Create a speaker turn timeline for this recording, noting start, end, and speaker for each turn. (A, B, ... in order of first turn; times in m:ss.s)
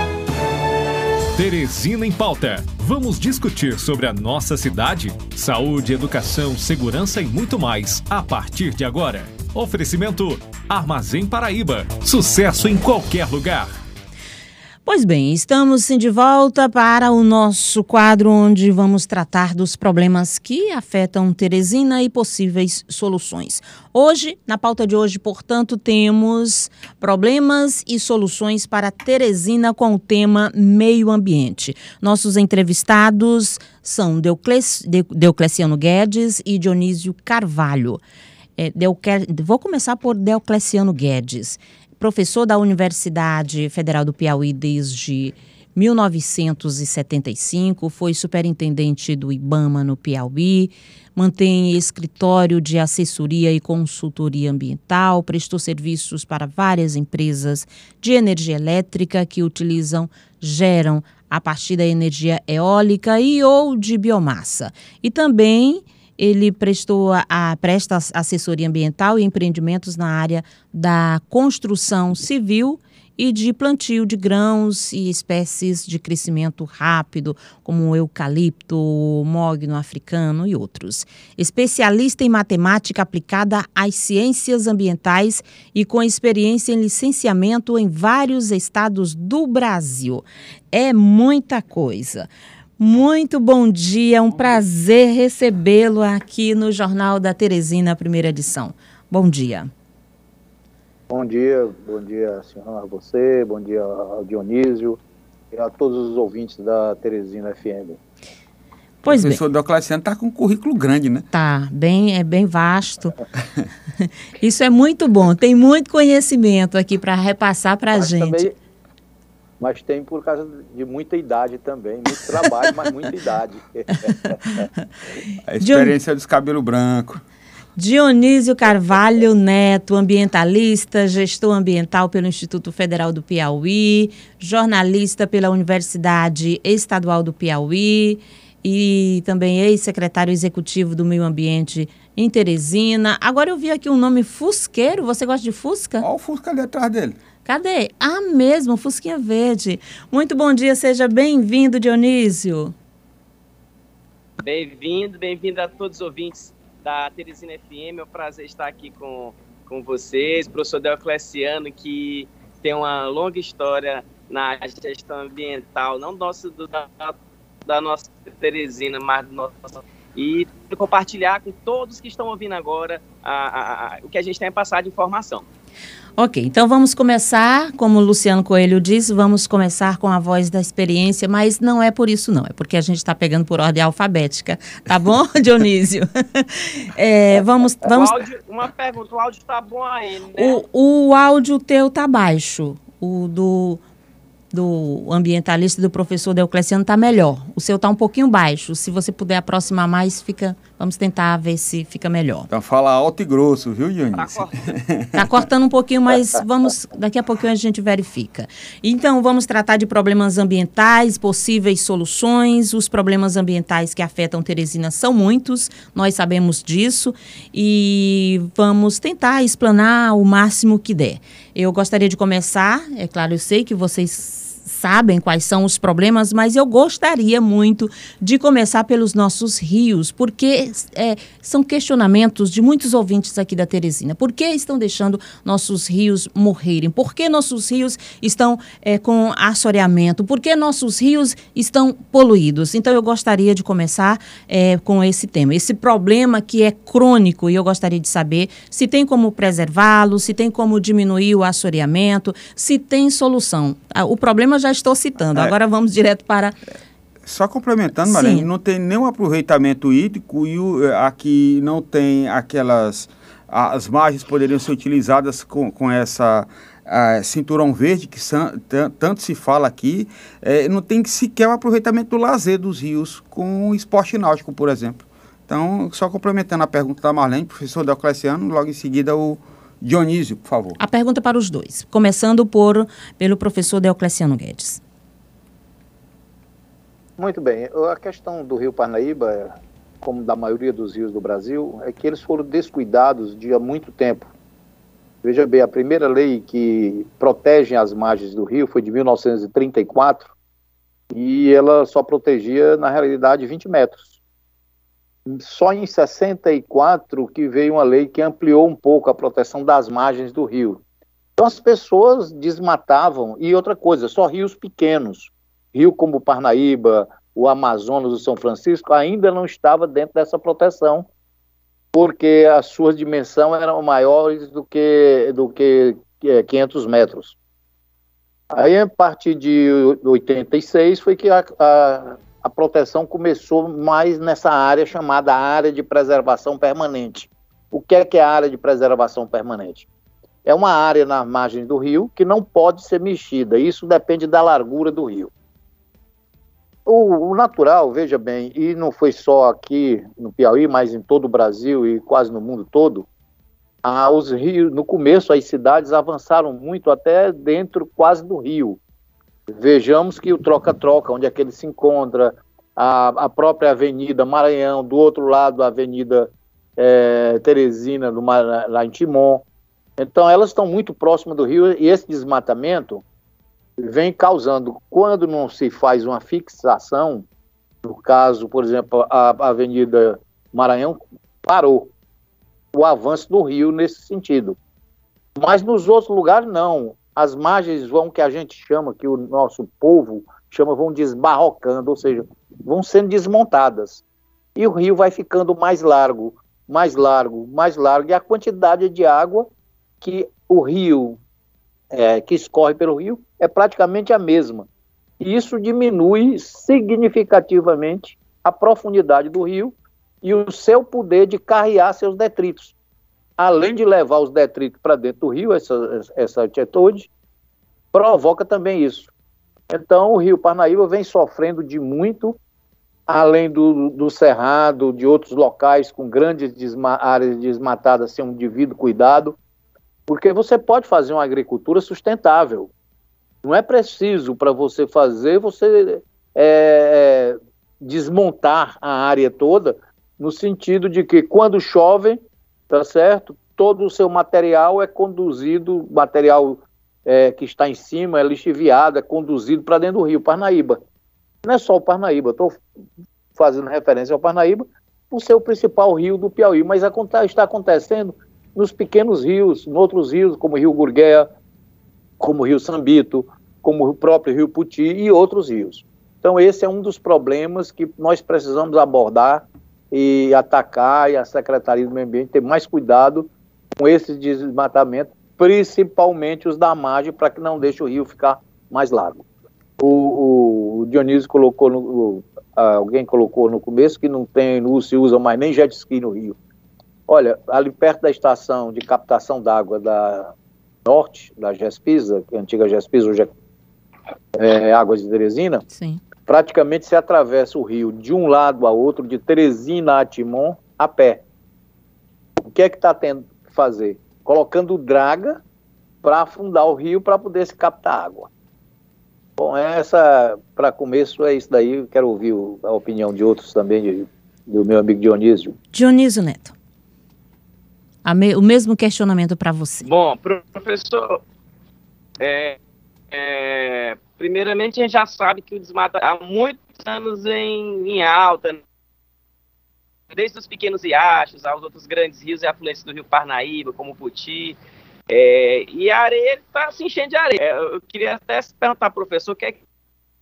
0:01.3-0:13.7 A
0:14.8-0:38.0 B
0:38.6-1:39.7 B
1:41.1-1:45.0 C
1:45.5-1:48.0 C
1:49.0-1:49.4 B
1:49.1-1:51.3 D
1:51.3-1:53.2 B
1:54.4-1:58.5 B
1:58.0-1:58.5 C
1:59.6-2:04.7 C
2:05.5-2:07.2 D
2:05.6-2:06.0 B
2:07.8-2:26.1 B
2:26.0-2:27.2 D
2:27.4-2:32.7 B
2:34.4-2:55.4 E
2:56.2-3:08.2 B
3:07.9-3:10.6 E
3:10.4-3:13.8 B
3:14.5-3:22.5 B
3:22.5-3:25.4 D
3:24.2-3:24.7 E
3:25.2-4:16.6 B
4:17.2-4:40.8 D
4:18.0-4:18.5 B
4:40.8-4:44.8 B
4:47.2-4:54.3 C
4:55.2-5:00.3 C
5:01.1-5:04.2 C
5:05.3-5:10.8 C
5:11.4-5:21.1 C
5:21.9-5:27.4 C
5:28.5-5:39.9 C
5:40.4-5:45.3 C
5:46.9-5:53.1 C
5:53.8-5:58.8 C
5:59.6-6:09.4 C
6:10.0-6:13.0 C
6:13.8-6:17.2 C
6:17.8-6:21.9 C
6:22.7-6:24.6 C
6:25.4-6:34.0 C
6:34.6-6:39.5 C
6:40.0-6:41.2 C
6:41.9-6:44.7 C
6:45.2-6:52.7 C
6:53.4-6:57.1 C
6:57.9-6:59.1 C
6:59.7-7:02.4 C
7:03.1-7:09.4 C
7:10.1-7:12.7 C
7:13.4-7:30.8 C
7:31.4-7:32.6 C
7:33.4-7:41.3 C
7:42.2-7:59.2 C
7:59.8-8:06.4 C
8:07.1-8:10.3 C
8:10.8-8:13.3 C
8:14.4-8:15.6 C
8:15.7-8:16.0 B
8:16.3-8:21.2 C
8:22.4-8:25.4 C
8:26.0-8:28.3 C
8:29.4-8:35.6 C
8:35.7-8:36.5 B
8:38.0-8:39.9 B
8:39.8-8:41.2 E
8:42.2-8:42.6 E
8:43.1-8:48.6 E
8:50.1-8:54.6 E
8:55.1-8:59.6 E